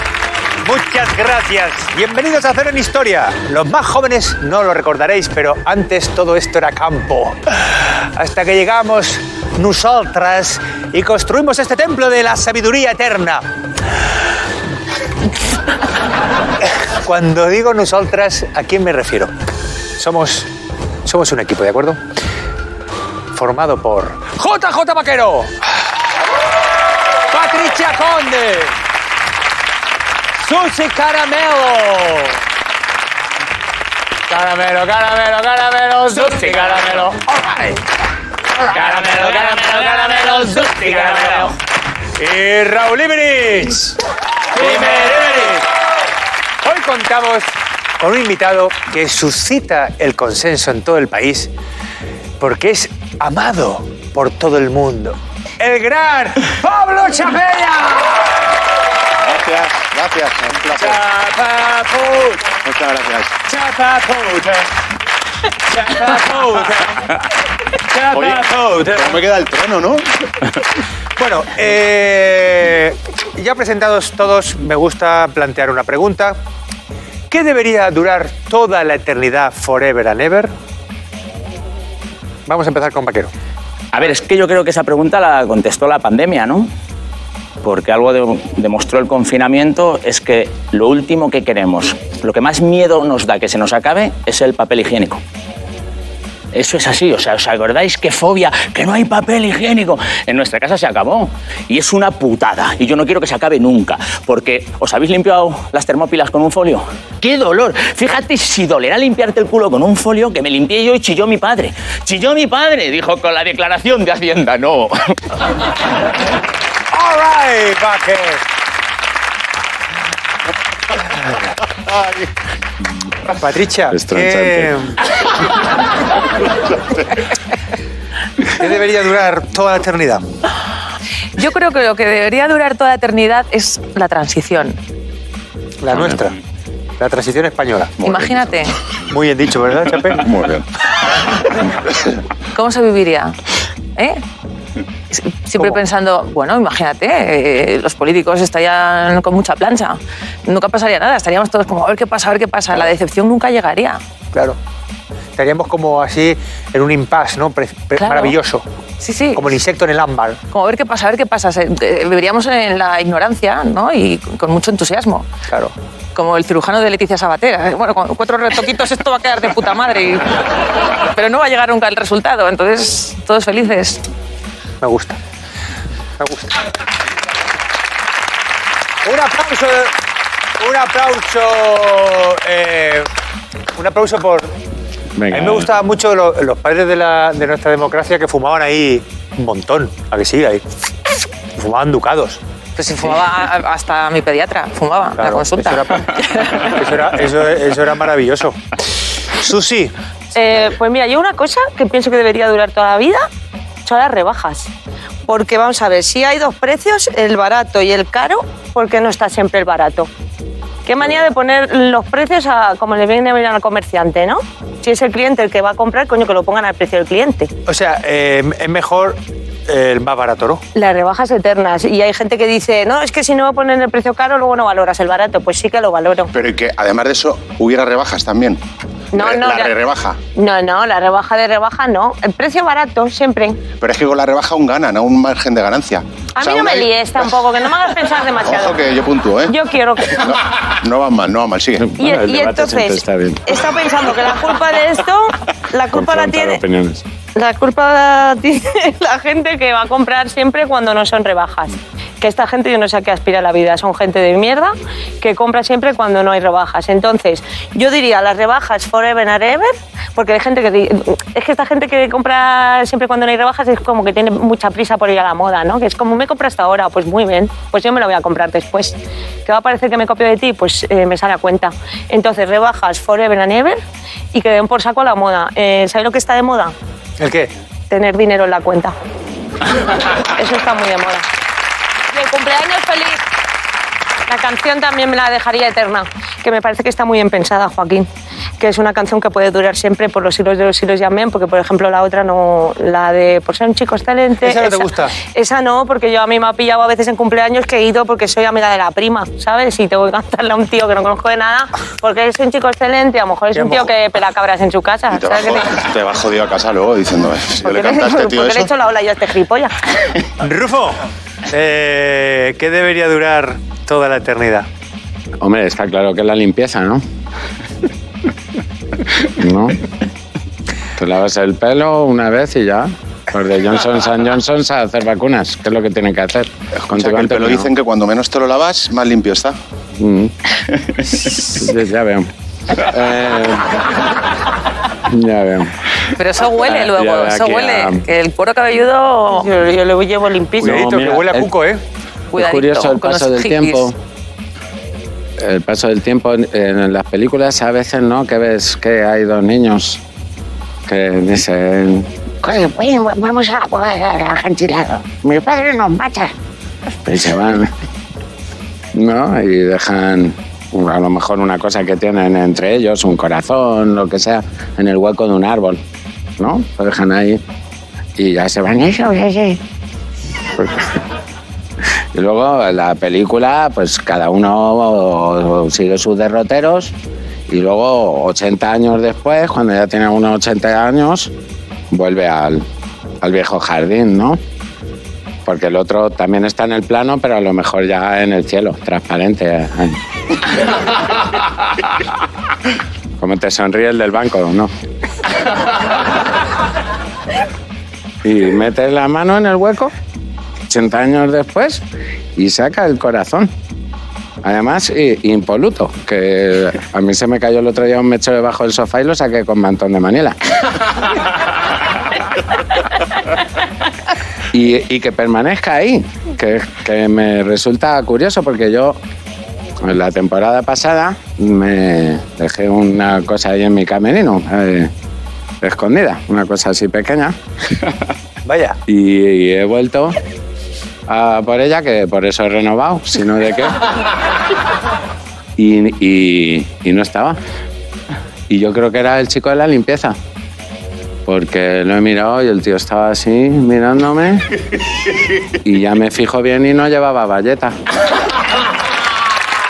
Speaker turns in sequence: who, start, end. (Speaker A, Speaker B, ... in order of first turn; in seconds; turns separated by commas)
Speaker A: 0.6-13.5, Speaker A: 16.6-19.3, Speaker A: 20.0-20.5, Speaker A: 21.1-22.0, Speaker A: 23.3-25.7, Speaker A: 27.3-28.8, Speaker A: 30.4-32.4, Speaker A: 34.3-37.6, Speaker B: 36.2-37.8, Speaker A: 38.6-41.6, Speaker B: 38.7-41.5, Speaker A: 42.2-44.0, Speaker A: 44.5-45.7, Speaker B: 44.6-45.5, Speaker A: 46.6-51.5, Speaker A: 52.4-58.6, Speaker C: 59.2-61.0, Speaker A: 60.7-62.5, Speaker C: 62.5-63.4, Speaker A: 63.5-64.7, Speaker A: 65.7-67.2, Speaker A: 67.9-69.2, Speaker C: 68.1-70.1, Speaker A: 71.2-76.4, Speaker A: 77.3-80.5, Speaker A: 82.5-83.3, Speaker B: 83.9-86.7, Speaker B: 87.6-95.2, Speaker B: 96.5-115.2, Speaker A: 116.9-118.4, Speaker A: 123.3-125.0, Speaker D: 123.9-124.8, Speaker A: 128.4-130.2, Speaker E: 131.4-134.8, Speaker A: 135.8-136.4, Speaker A: 137.0-137.9, Speaker C: 138.0-138.4, Speaker E: 138.0-138.8, Speaker A: 139.1-140.3, Speaker C: 140.1-140.6, Speaker E: 142.5-143.4, Speaker E: 144.0-144.2, Speaker E: 145.1-154.0, Speaker A: 154.3-154.6, Speaker A: 155.4-158.7, Speaker E: 158.0-158.4, Speaker E: 159.0-159.4, Speaker A: 159.3-160.4, Speaker E: 160.5-165.2, Speaker A: 165.5-165.7, Speaker E: 166.2-170.4, Speaker E: 171.1-174.0, Speaker A: 174.8-175.2, Speaker A: 176.2-176.6, Speaker A: 179.0-179.9, Speaker A: 180.6-183.1, Speaker A: 183.8-184.5, Speaker D: 185.2-185.7, Speaker A: 185.3-190.6, Speaker A: 191.6-192.4, Speaker E: 192.8-196.8, Speaker A: 195.2-198.8, Speaker A: 199.3-199.9, Speaker F: 200.3-203.3, Speaker F: 203.8-204.7, Speaker F: 205.2-210.1, Speaker F: 210.9-217.5, Speaker A: 217.7-220.6, Speaker F: 220.8-226.3, Speaker C: 226.3-228.6, Speaker F: 229.1-229.7, Speaker C: 229.1-230.2, Speaker F: 230.3-233.6, Speaker C: 233.8-236.9, Speaker F: 236.4-238.9, Speaker C: 238.4-239.6, Speaker F: 239.5-240.3, Speaker C: 240.2-241.9, Speaker D: 241.8-243.6, Speaker F: 242.0-246.6, Speaker D: 245.9-247.0, Speaker F: 247.4-273.8, Speaker F: 274.3-276.7, Speaker A: 277.2-277.5, Speaker F: 277.9-278.9, Speaker F: 280.1-281.3, Speaker F: 282.1-283.2, Speaker F: 284.3-288.1, Speaker F: 288.6-305.7, Speaker A: 294.4-295.1, Speaker A: 303.6-303.9, Speaker C: 305.1-308.7, Speaker F: 307.6-309.7, Speaker A: 310.4-314.7, Speaker D: 315.4-317.0, Speaker D: 319.2-319.8, Speaker D: 321.0-327.7, Speaker C: 326.9-329.6, Speaker D: 330.0-330.3, Speaker D: 331.3-333.8, Speaker D: 335.1-335.8, Speaker E: 336.2-339.5, Speaker D: 336.6-338.1, Speaker F: 339.3-340.9, Speaker A: 340.6-341.8, Speaker D: 340.6-341.5, Speaker E: 342.3-343.9, Speaker D: 342.3-344.0, Speaker D: 345.4-350.0, Speaker D: 350.9-356.3, Speaker D: 356.9-357.7, Speaker D: 358.9-365.8, Speaker D: 366.4-367.4, Speaker D: 368.2-369.6, Speaker D: 370.5-371.0, Speaker D: 372.1-376.9, Speaker D: 377.5-381.3, Speaker D: 381.9-382.6, Speaker D: 383.2-384.4, Speaker D: 385.5-390.0, Speaker D: 393.2-394.7, Speaker D: 398.2-399.9, Speaker D: 400.7-401.8, Speaker D: 402.4-403.5, Speaker D: 404.4-410.4, Speaker D: 414.5-419.0, Speaker D: 419.8-424.9, Speaker D: 425.6-427.4, Speaker A: 428.4-428.8, Speaker D: 428.9-430.2, Speaker D: 431.1-433.8, Speaker D: 435.6-437.4, Speaker D: 438.5-440.2, Speaker D: 441.3-444.4, Speaker D: 445.6-447.8